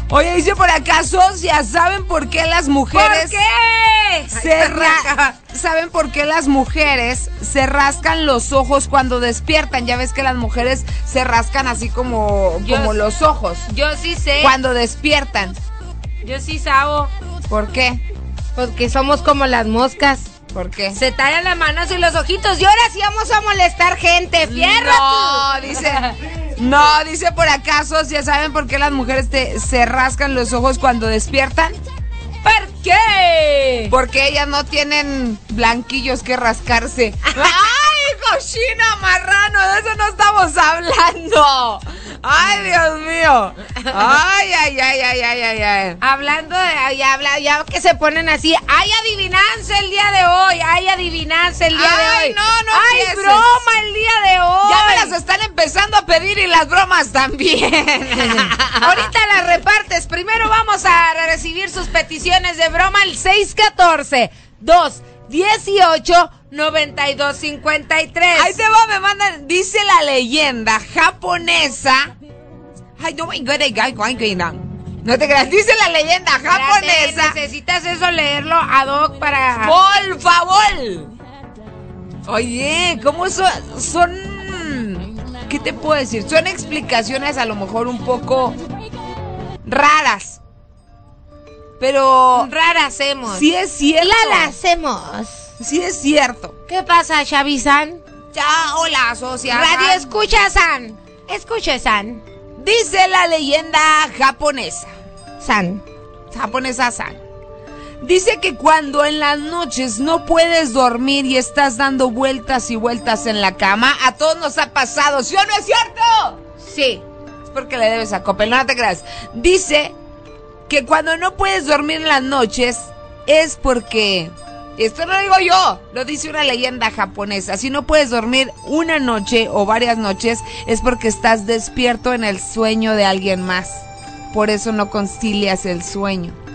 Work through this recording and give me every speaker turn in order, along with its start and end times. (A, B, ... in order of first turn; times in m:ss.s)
0:00.1-0:03.4 A
0:02.9-0:05.4 B
0:04.3-0:13.7 A
0:12.6-0:13.0 B
0:13.7-0:14.5 B
0:14.4-0:15.6 A
0:16.2-0:17.1 B
0:17.5-0:18.0 A
0:18.5-0:20.3 B
0:20.5-0:21.0 A
0:20.9-0:26.1 B
0:24.4-0:26.0 A
0:26.6-0:31.8 A
0:32.4-0:33.9 B
0:33.9-0:46.0 A
0:43.9-0:44.2 B
0:46.0-0:55.2 B
0:51.7-0:53.6 A
0:54.6-0:59.1 A
0:58.2-1:08.6 B
1:08.3-1:12.1 A
1:13.0-1:17.4 A
1:16.5-1:19.8 B
1:19.6-1:21.1 A
1:22.2-1:28.6 A
1:29.6-1:30.4 A
1:31.8-1:32.5 A
1:32.3-1:33.5 B
1:33.3-1:34.5 A
1:34.0-1:35.5 B
1:35.6-1:36.5 A
1:36.7-1:38.0 B
1:38.3-1:40.0 A
1:39.5-1:42.2 B
1:42.6-1:44.9 A
1:45.4-1:45.8 B
1:46.3-1:47.2 A
1:48.0-1:56.4 A
1:56.6-1:57.0 B
1:57.5-2:00.0 A
2:00.7-2:16.4 A